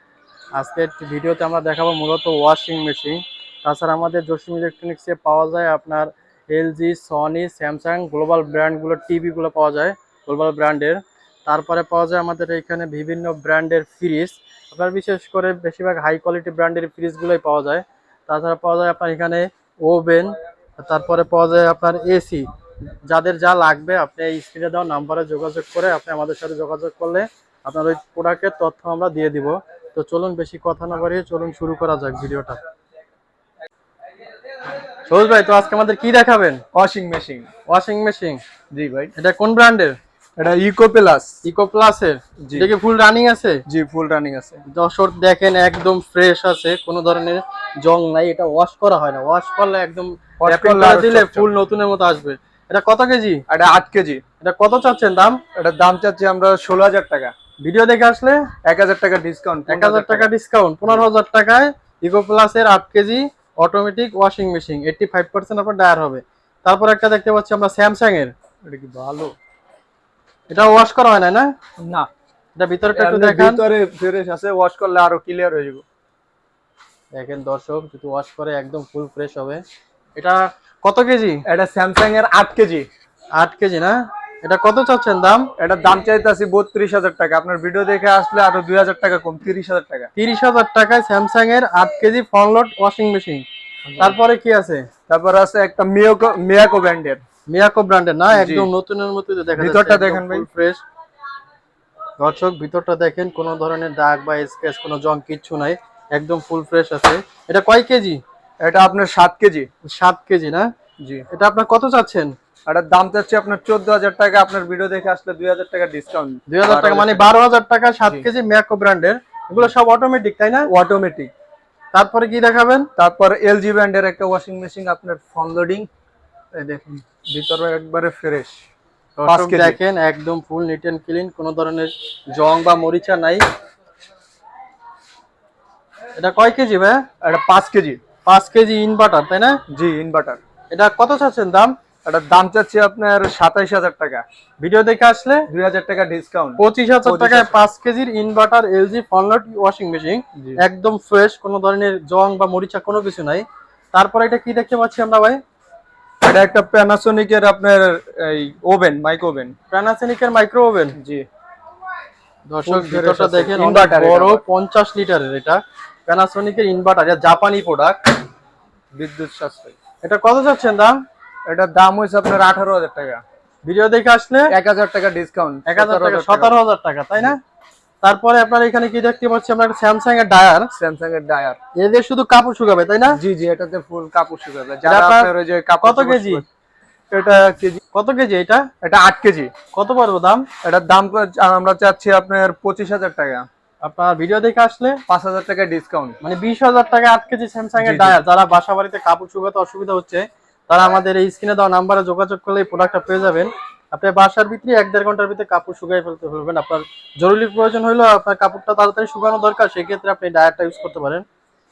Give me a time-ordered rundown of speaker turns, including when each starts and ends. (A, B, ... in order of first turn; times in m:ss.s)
0:00.6-0:22.5 A
0:23.1-0:32.6 A
0:35.1-0:36.6 A
0:36.7-0:37.5 B
0:37.7-0:38.4 A
0:38.7-0:39.1 B
0:39.2-0:40.0 A
0:40.4-0:41.4 B
0:41.4-0:43.6 A
0:42.4-0:42.7 B
0:43.7-0:44.6 B
0:44.7-0:53.4 A
0:50.4-0:51.5 B
0:53.5-0:54.2 B
0:54.4-0:55.4 A
0:55.6-0:57.3 B
0:57.6-0:58.5 A
0:58.6-1:00.3 B
0:59.7-1:08.3 A
1:08.6-1:09.4 B
1:10.5-1:11.5 A
1:11.8-1:12.1 B
1:12.6-1:13.6 A
1:12.9-1:15.8 B
1:17.1-1:19.6 A
1:20.2-1:21.4 A
1:21.5-1:22.9 B
1:23.4-1:25.5 A
1:25.6-1:30.1 B
1:30.2-1:33.5 A
1:33.8-1:34.2 B
1:34.0-1:34.9 A
1:35.1-1:37.2 B
1:37.5-1:40.8 A
1:38.3-1:38.7 B
1:39.6-1:40.5 B
1:42.2-1:48.2 A
1:48.6-1:49.7 B
1:49.8-1:50.7 A
1:51.3-1:52.4 A
1:52.7-1:57.3 B
1:56.5-2:00.7 A
2:00.7-2:01.3 B
2:01.9-2:02.9 A
2:03.0-2:05.9 B
2:06.5-2:08.6 B
2:09.2-2:13.5 A
2:09.3-2:09.8 B
2:16.2-2:17.0 A
2:17.2-2:18.0 B
2:18.3-2:19.6 A
2:19.7-2:20.4 B
2:20.7-2:21.8 A
2:22.0-2:24.2 B
2:24.6-2:25.5 A
2:25.5-2:27.6 B
2:26.6-2:35.4 A
2:30.4-2:30.6 B
2:36.2-2:39.5 B
2:39.7-2:41.0 A
2:41.0-2:41.3 B
2:42.5-2:48.0 A
2:42.6-2:44.4 B
2:49.0-2:49.8 B
2:50.0-2:51.0 A
2:51.5-2:53.2 B
2:53.6-2:54.5 A
2:54.5-2:56.5 B
2:55.7-2:57.4 A
2:58.0-3:00.7 A
3:00.7-3:01.6 B
3:01.8-3:03.2 A
3:03.1-3:06.4 B
3:04.8-3:05.3 A
3:05.8-3:06.4 A
3:07.1-3:07.8 B
3:07.9-3:08.7 A
3:08.8-3:09.5 B
3:09.7-3:10.5 A
3:10.6-3:13.5 B
3:13.8-3:15.0 A
3:15.1-3:16.2 B
3:16.2-3:31.2 A
3:17.8-3:18.2 B